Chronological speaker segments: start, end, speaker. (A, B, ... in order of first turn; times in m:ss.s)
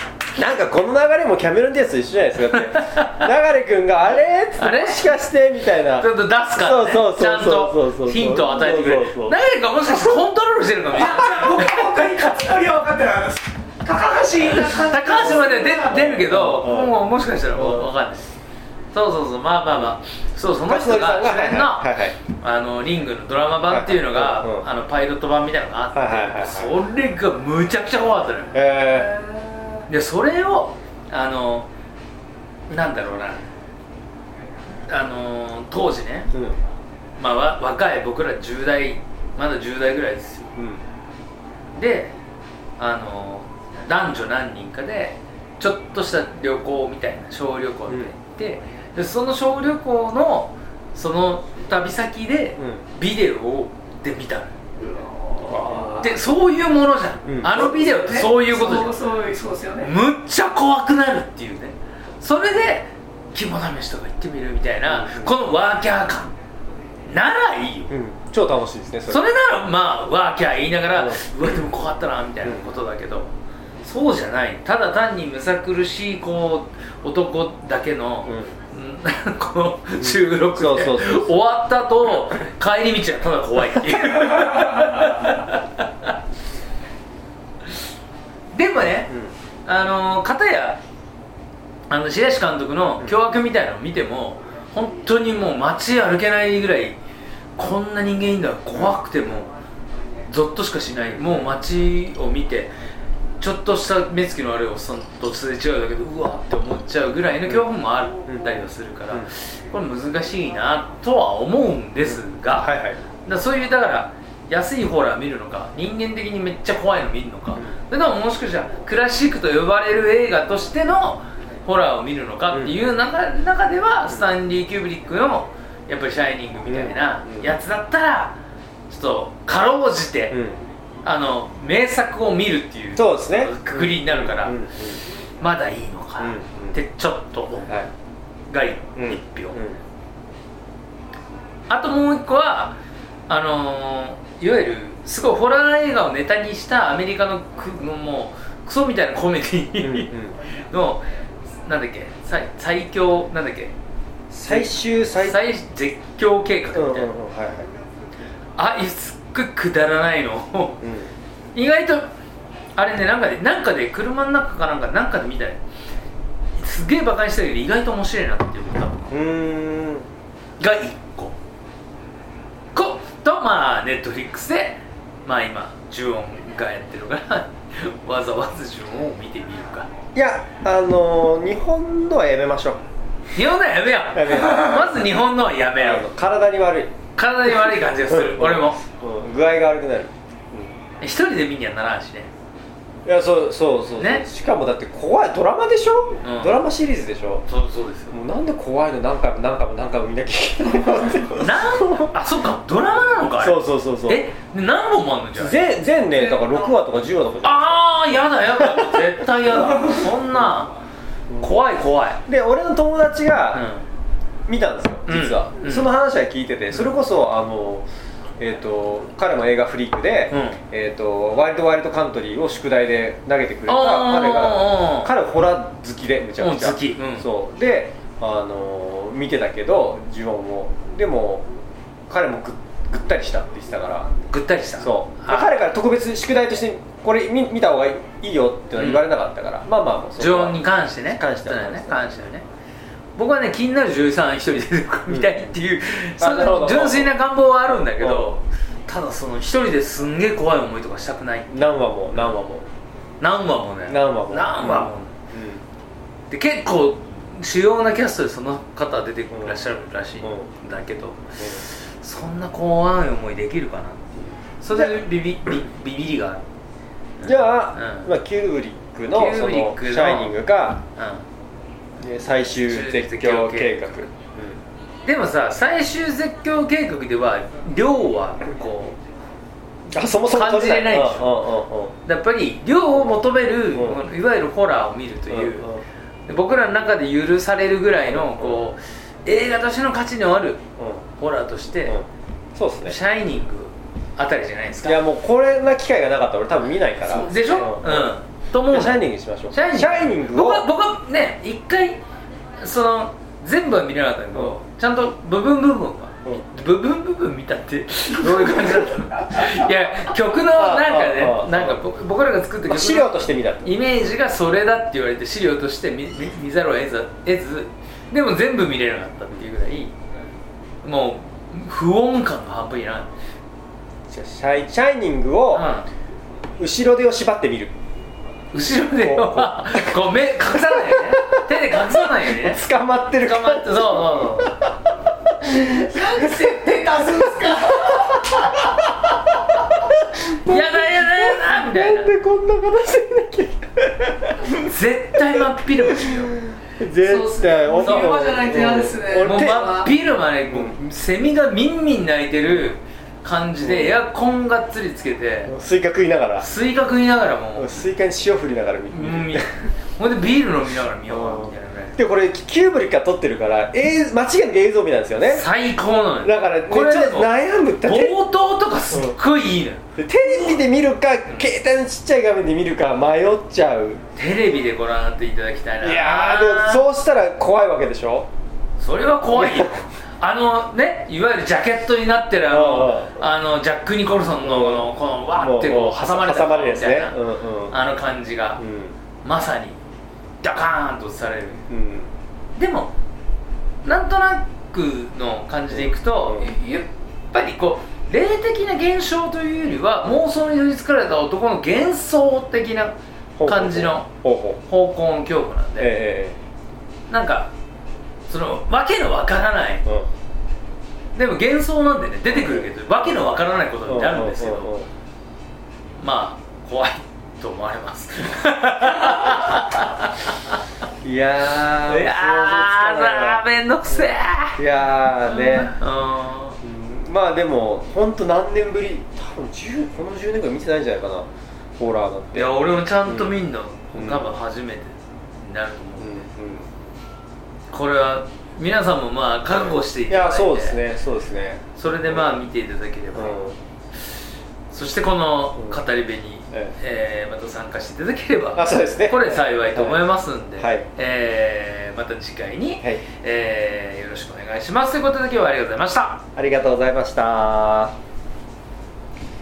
0:00.4-0:09.4 A
0:02.5-0:03.3 B
0:04.6-0:05.2 B
0:06.0-0:12.1 B
0:11.0-0:16.0 C
0:14.6-0:18.3 B
0:15.8-0:17.0 A
0:17.5-0:17.9 A
0:18.9-0:28.6 B
0:20.6-0:22.2 A
0:23.7-0:24.7 A
0:25.9-0:26.8 A
0:28.5-0:29.2 A
0:29.9-0:31.7 B
0:32.7-0:33.4 B
0:34.9-0:36.4 B
0:36.3-0:36.6 A
0:37.2-0:40.5 B
0:40.6-0:40.8 A
0:41.8-0:42.2 B
0:42.8-0:54.6 B
0:47.9-0:48.1 A
0:52.6-0:52.8 A
0:54.8-0:56.0 C
0:55.5-0:56.1 A
0:55.9-0:59.0 B
0:57.3-0:58.0 A
0:57.7-0:59.9 C
0:59.8-1:06.4 B
1:04.9-1:05.4 A
1:07.1-1:07.9 B
1:07.9-1:09.2 A
1:09.1-1:26.1 B
1:10.9-1:11.2 A
1:12.4-1:12.7 A
1:18.3-1:18.5 A
1:20.0-1:21.3 A
1:28.5-1:29.2 B
1:29.7-1:30.8 B
1:31.9-1:37.0 B
1:37.6-1:39.5 B
1:38.7-1:39.2 A
1:40.3-1:42.7 B
1:41.1-1:41.6 A
1:43.4-2:08.4 B
1:52.0-1:53.0 A
2:02.5-2:02.8 A
2:06.7-2:07.5 A
2:08.9-2:10.4 B
2:10.3-2:10.6 A
2:11.0-2:14.6 B
2:13.0-2:15.0 A
2:15.4-2:17.8 B
2:16.2-2:16.8 A
2:18.5-2:19.6 B
2:19.0-2:19.8 A
2:21.7-2:30.1 B
2:29.8-2:30.4 A
2:30.7-2:31.0 B
2:31.6-2:33.7 B
2:34.3-2:35.5 A
2:34.5-2:37.1 B
2:36.7-2:37.7 A
2:38.6-2:40.8 B
2:40.8-2:41.1 A
2:41.6-2:42.1 B
2:42.8-2:45.6 B
2:46.6-2:49.2 B
2:49.1-2:50.1 A
2:50.6-2:51.4 B
2:52.7-2:59.9 B
3:00.2-3:02.8 A
3:03.3-3:06.1 B
3:04.1-3:05.1 A
3:05.8-3:07.0 A
3:07.2-3:08.8 B
3:08.1-3:10.8 A
3:11.0-3:12.3 B
3:13.0-3:17.4 A
3:14.0-3:14.2 B
3:16.2-3:16.6 B
3:17.5-3:18.2 B
3:18.1-3:22.2 A
3:21.3-3:25.7 B
3:23.4-3:24.2 A
3:25.4-3:27.9 A
3:27.4-3:30.8 B
3:28.5-3:30.5 A
3:31.3-3:31.6 A
3:31.4-3:32.2 B
3:32.3-3:33.7 A
3:33.5-3:33.8 B
3:34.5-3:51.5 A
3:35.1-3:35.9 B
3:40.3-3:40.6 B
3:43.7-3:45.1 B
3:46.4-3:47.3 B
3:52.1-3:54.1 A
3:54.3-3:55.6 B
3:54.8-4:02.2 A
3:58.8-3:59.1 B
4:00.2-4:02.4 B
4:03.2-4:11.6 B
4:05.1-4:05.4 A
4:06.2-4:08.3 A
4:11.5-4:12.6 A
4:13.2-4:15.2 B
4:13.9-4:15.6 A
4:16.3-4:26.4 B
4:19.3-4:19.6 A
4:20.2-4:20.5 A
4:21.4-4:21.6 A
4:24.7-4:25.0 A
4:27.2-4:28.1 B
4:27.2-4:30.8 A
4:29.1-4:30.3 B
4:31.0-4:31.2 B
4:32.0-4:34.6 A
4:32.6-4:33.8 B
4:35.0-4:39.0 B
4:39.9-4:42.0 A
4:40.0-4:41.4 B
4:42.0-4:45.7 B
4:43.7-4:44.0 A
4:45.3-4:45.8 A
4:46.3-4:50.6 B
4:48.0-4:48.6 A
4:50.8-4:51.0 A
4:51.2-4:52.0 B
4:51.9-4:53.0 A
4:52.8-4:55.0 B
4:54.8-4:58.2 A
4:57.1-4:57.6 C
4:57.2-5:02.0 B
4:58.7-5:00.7 A
5:02.6-5:19.9 B
5:08.2-5:09.7 A
5:10.4-5:11.8 A
5:12.6-5:13.8 A
5:20.8-5:23.1 B
5:24.1-5:25.7 A
5:25.5-5:25.9 B
5:26.6-5:27.7 A
5:28.5-5:32.6 B
5:29.0-5:34.8 A
5:33.2-5:34.6 B
5:35.4-5:38.6 C
5:36.0-5:38.4 A
5:39.8-5:44.5 A
5:40.3-5:42.1 B
5:44.5-5:46.4 B
5:45.2-5:49.7 A
5:47.0-5:49.9 C
5:47.8-5:48.2 B
5:49.2-5:55.5 B
5:50.5-5:50.8 A
5:53.6-5:54.0 A
5:55.5-5:56.5 A
5:56.4-5:57.8 B
5:57.6-5:59.5 A
5:58.9-6:02.0 B
6:01.1-6:05.5 A
6:05.3-6:09.8 B
6:06.2-6:08.2 A
6:08.9-6:09.2 A
6:10.0-6:14.0 A
6:14.2-6:16.8 B
6:15.8-6:18.3 A
6:18.8-6:27.2 B
6:19.3-6:19.7 A
6:22.4-6:23.2 A
6:24.4-6:27.8 A
6:27.7-6:28.6 B
6:28.6-6:29.0 A
6:29.2-6:29.8 B
6:30.4-6:31.7 B
6:31.7-6:32.1 A
6:32.6-6:32.9 B
6:33.8-6:44.1 B
6:35.7-6:36.5 A
6:43.4-6:44.6 A
6:44.6-6:46.0 B
6:45.8-6:46.4 A
6:47.1-6:47.5 B
6:48.3-6:49.9 B
6:51.2-6:54.8 B
6:52.3-6:54.9 A
6:56.0-7:00.6 B
6:58.9-6:59.5 A
7:01.0-7:05.7 A
7:01.6-7:04.6 B
7:05.3-7:06.6 B
7:06.6-7:13.4 A
7:12.4-7:16.1 B
7:13.9-7:14.4 A
7:16.0-7:16.7 A
7:17.7-7:20.8 B
7:19.5-7:22.4 A
7:21.8-7:23.4 B
7:23.1-7:23.6 A
7:24.7-7:36.2 B
7:28.5-7:30.0 A
7:30.6-7:30.9 A
7:36.4-7:38.0 A